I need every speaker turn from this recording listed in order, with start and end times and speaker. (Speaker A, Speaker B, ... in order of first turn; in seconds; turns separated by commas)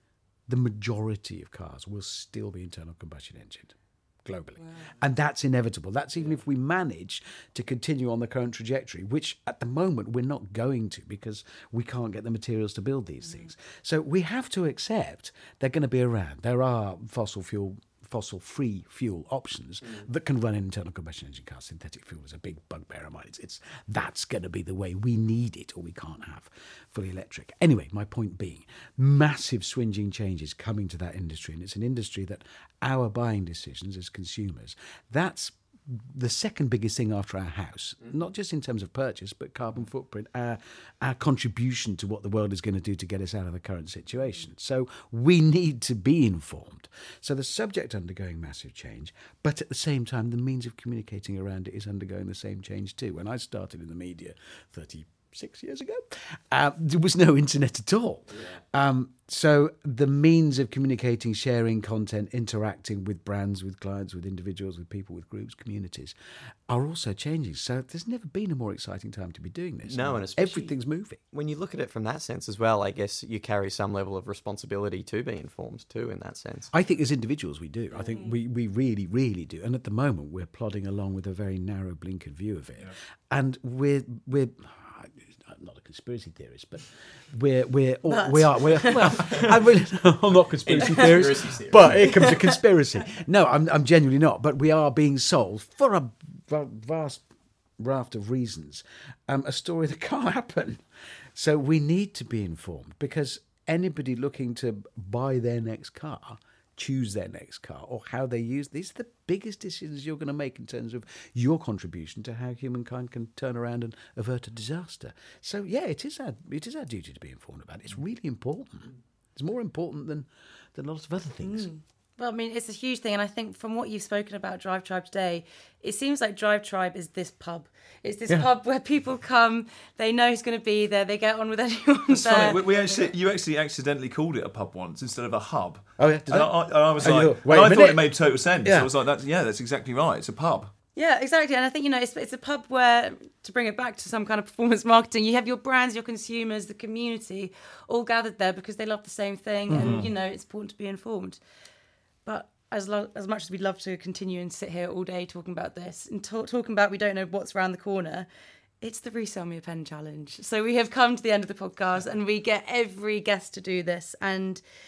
Speaker A: 0.5-66.2, Speaker A: 66.7-71.2, Speaker B: 69.8-70.8, Speaker B: 71.3-76.7, Speaker A: 76.7-97.2, Speaker C: 88.1-89.4, Speaker B: 89.2-89.5, Speaker B: 90.6-92.2, Speaker C: 90.8-91.3, Speaker C: 92.0-92.5, Speaker A: 97.8-100.8, Speaker A: 101.3-121.7, Speaker C: 121.4-133.1, Speaker D: 132.1-140.7, Speaker A: 136.0-138.1, Speaker A: 138.6-138.9, Speaker C: 140.9-151.4, Speaker A: 149.7-150.1, Speaker D: 149.7-150.1, Speaker C: 152.2-158.3, Speaker C: 158.8-164.6